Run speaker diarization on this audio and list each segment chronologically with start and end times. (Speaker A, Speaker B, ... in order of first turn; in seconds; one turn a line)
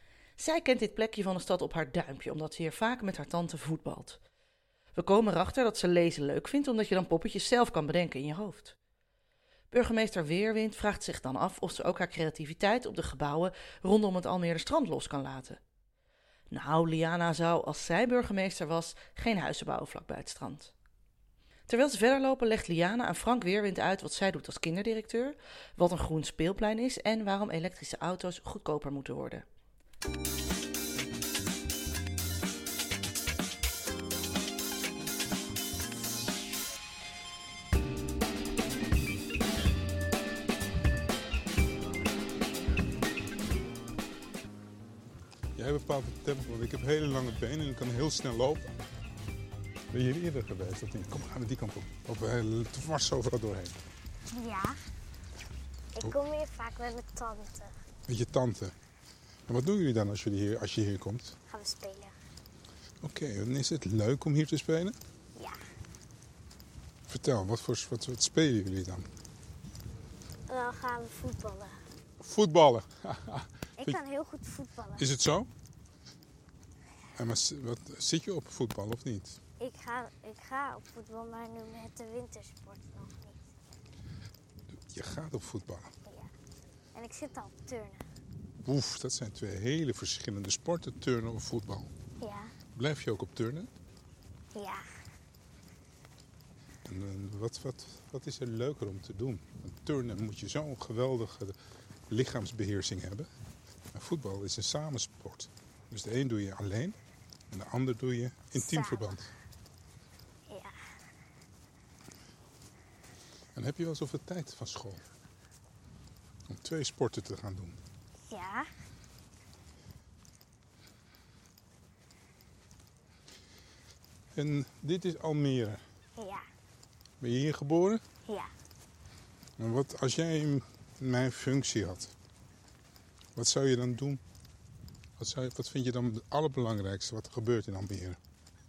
Speaker A: 0.4-4.2
Speaker A: 4.9-8.8
Speaker A: 9.7-15.6
Speaker A: 16.5-20.7
Speaker A: 21.7-29.4
Speaker B: 45.5-48.7
Speaker B: 49.9-53.8
Speaker C: 54.3-54.8
Speaker C: 56.0-57.7
Speaker B: 58.1-58.7
Speaker B: 59.5-61.4
Speaker C: 61.5-62.1
Speaker B: 63.0-65.0
Speaker B: 67.1-69.1
Speaker C: 70.5-71.8
Speaker B: 72.2-74.0
Speaker C: 73.8-75.1
Speaker B: 75.0-75.5
Speaker B: 77.1-79.4
Speaker C: 79.6-83.5
Speaker B: 84.8-85.9
Speaker C: 86.0-86.3
Speaker C: 87.0-88.0
Speaker B: 88.6-91.9
Speaker C: 92.2-92.5
Speaker B: 92.8-93.7
Speaker C: 94.5-94.8
Speaker B: 96.8-101.5
Speaker B: 102.1-103.3
Speaker B: 103.9-107.0
Speaker B: 107.5-109.3
Speaker C: 108.6-109.2
Speaker B: 113.5-115.0
Speaker B: 116.5-117.8
Speaker C: 118.3-118.7
Speaker B: 124.3-125.8
Speaker C: 126.2-126.4
Speaker B: 127.2-128.0
Speaker B: 129.6-132.1
Speaker B: 133.4-134.2
Speaker B: 135.2-138.2